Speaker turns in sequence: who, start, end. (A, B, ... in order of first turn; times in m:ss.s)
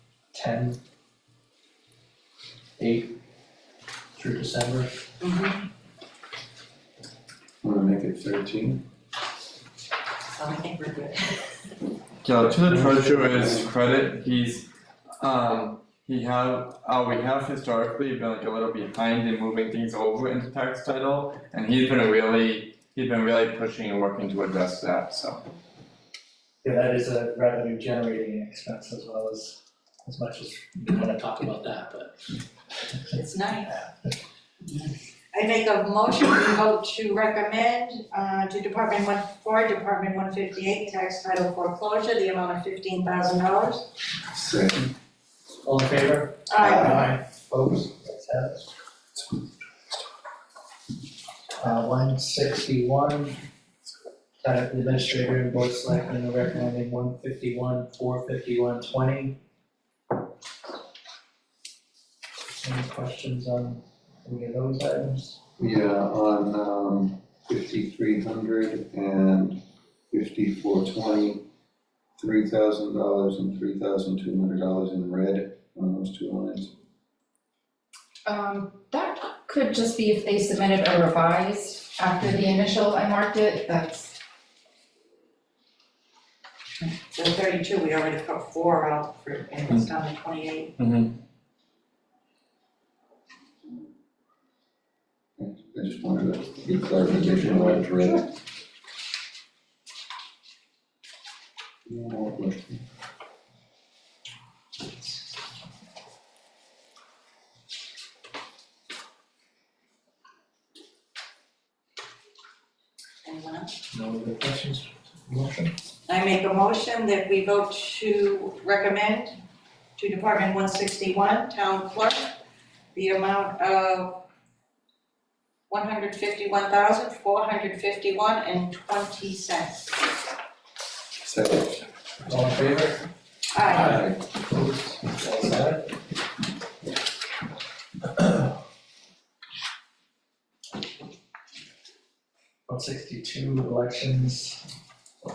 0:00.3-0:00.8 A
0:02.8-0:03.2 A
0:04.1-0:05.0 A
0:05.2-0:05.7 B
0:07.6-0:08.8 C
0:10.3-0:11.4 B
0:12.2-0:25.4 D
0:12.7-0:13.6 C
0:26.6-0:32.2 A
0:33.1-0:33.9 B
0:35.3-0:43.9 B
0:44.3-0:44.8 C
0:45.6-0:48.7 A
0:46.5-0:47.2 B
0:51.6-0:53.4 A
0:54.4-0:59.4 A
1:02.6-1:05.4 A
1:05.6-1:09.6 C
1:10.1-1:11.4 C
1:12.2-1:16.7 C
1:18.2-1:24.2 E
1:27.1-1:30.7 B
1:30.8-1:31.2 D
1:35.4-1:38.2 C
1:41.9-1:42.8 C
1:53.2-1:53.7 B
1:53.9-1:55.7 A
1:56.1-1:59.4 B
2:00.0-2:02.3 B
2:02.9-2:04.2 B
2:05.7-2:10.0 B
2:11.2-2:11.8 C
2:12.3-2:13.0 A
2:13.5-2:14.0 B
2:13.7-2:15.9 A
2:13.8-2:14.2 C
2:22.7-2:24.6 A